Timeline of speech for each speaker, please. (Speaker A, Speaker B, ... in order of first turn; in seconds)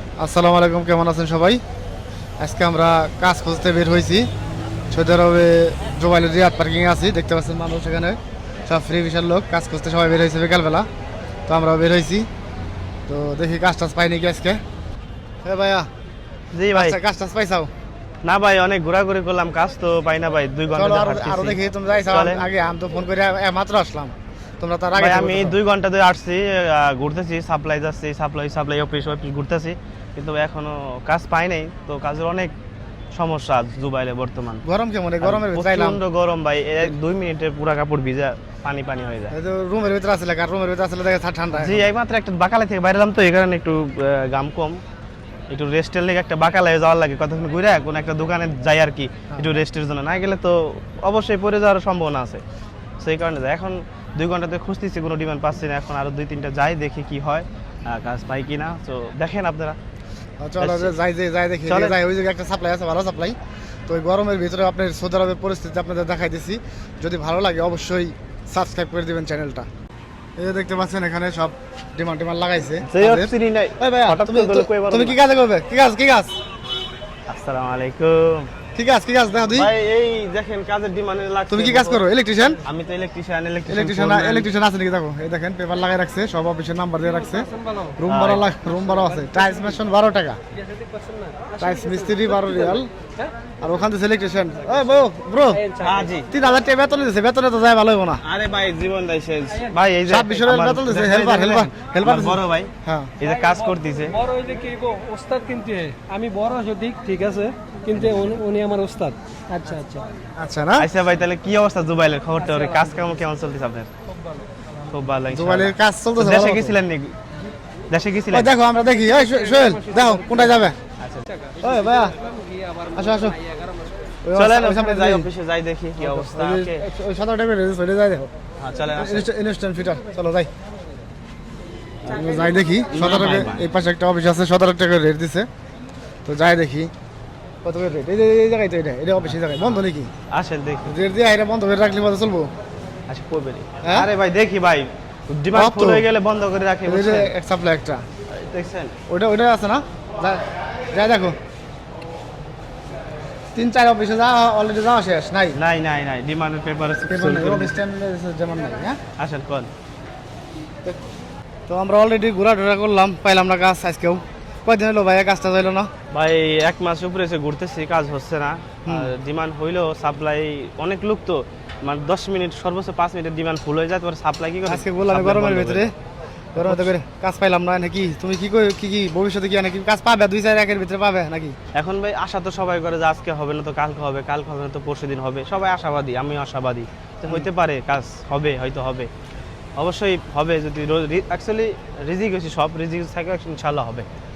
Speaker A: 0.2-1.6, 2.4-4.3, 4.9-10.9, 11.5-12.3, 13.1-14.6, 15.4-15.9, 16.7-17.7, 20.7-25.6, 34.6-36.0, 39.3-41.9, 60.4-63.4, 63.9-69.7, 70.4-76.3, 78.7-79.7, 81.5-82.6, 83.7-90.4, 91.6-92.9, 93.6-95.7, 96.3-98.2, 100.1-103.1, 110.4-110.9, 115.3-116.8, 118.3-120.8, 121.6-122.1, 122.9-123.4, 124.2-125.3, 126.0-128.3, 128.9-130.5, 132.1-135.5, 136.2-136.9, 137.6-140.1, 140.8-142.5, 143.8-144.1, 145.5-146.0, 146.8-148.0, 149.1-151.3, 153.5-155.6, 157.1-159.0, 161.7-165.9, 168.8-169.1, 174.7-175.9, 176.6-181.5
Speaker B: 16.5-17.0, 18.2-21.6, 22.1-22.5, 24.9-32.5, 33.1-34.6, 35.2-39.3, 41.5-44.8, 45.5-52.4, 53.0-59.8, 60.6-61.0, 61.6-62.0, 72.8-75.2, 77.3-78.5, 79.5-82.0, 82.6-84.5, 88.0-88.5, 95.8-96.3, 98.2-104.2, 107.9-108.4, 110.8-113.9, 114.9-117.2, 117.9-118.5, 121.0-121.3, 124.3-126.8, 128.6-129.3, 132.0-132.4, 132.9-133.7, 139.3-140.9, 143.1-147.3, 148.3-148.9, 155.5-157.8, 159.2-159.7, 166.1-175.9, 176.6-176.9, 181.7-189.1, 189.8-194.1
Speaker C: 87.6-87.9, 90.7-93.3, 95.6-96.1, 104.2-110.1, 119.2-120.5, 122.5-122.9